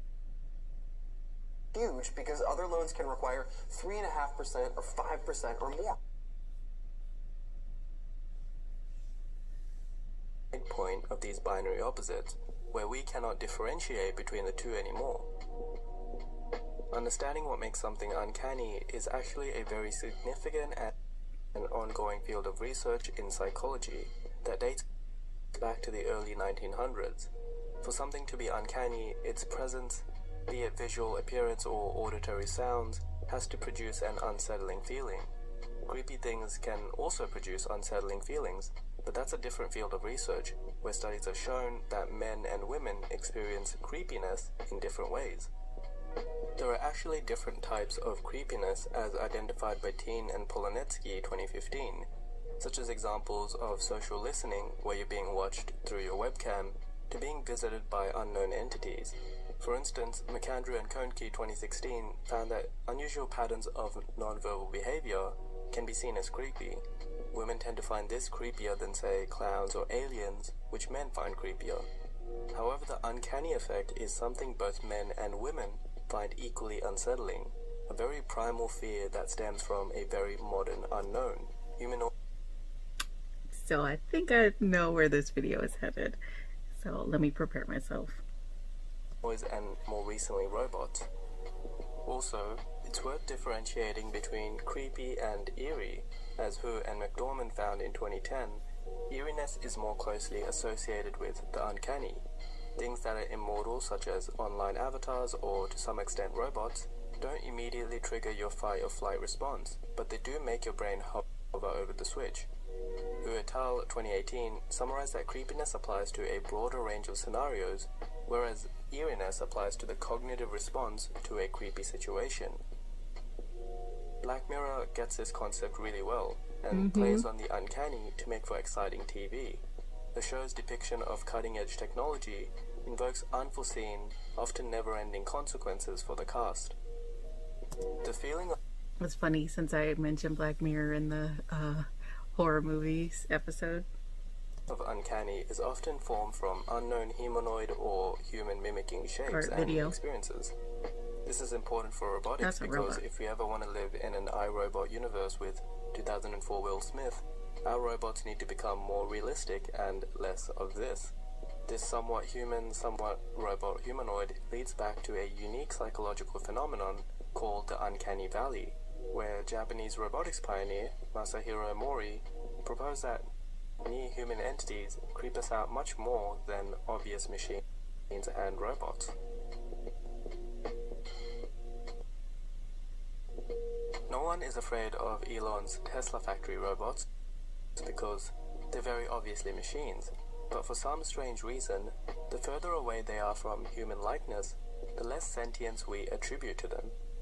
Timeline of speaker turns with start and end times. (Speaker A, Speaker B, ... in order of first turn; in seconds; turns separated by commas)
Speaker A: 1.7-6.0, Speaker B: 10.5-15.3, Speaker B: 16.9-20.9, Speaker B: 21.5-24.8, Speaker B: 25.6-27.3, Speaker B: 27.8-35.3, Speaker B: 35.8-45.5, Speaker B: 46.5-52.1, Speaker B: 52.6-71.9, Speaker B: 72.5-82.1, Speaker C: 83.5-86.2, Speaker C: 86.7-88.2, Speaker B: 89.2-91.1, Speaker B: 92.0-102.2, Speaker B: 102.8-112.5, Speaker B: 113.2-122.6, Speaker B: 124.2-136.8, Speaker C: 126.7-127.2, Speaker B: 138.0-138.6, Speaker C: 139.0-143.8, Speaker B: 144.7-150.5, Speaker C: 149.3-149.9, Speaker B: 151.2-161.1, Speaker C: 152.4-153.0, Speaker B: 161.7-173.3, Speaker B: 173.8-179.2, Speaker B: 184.1-187.1, Speaker B: 187.8-196.9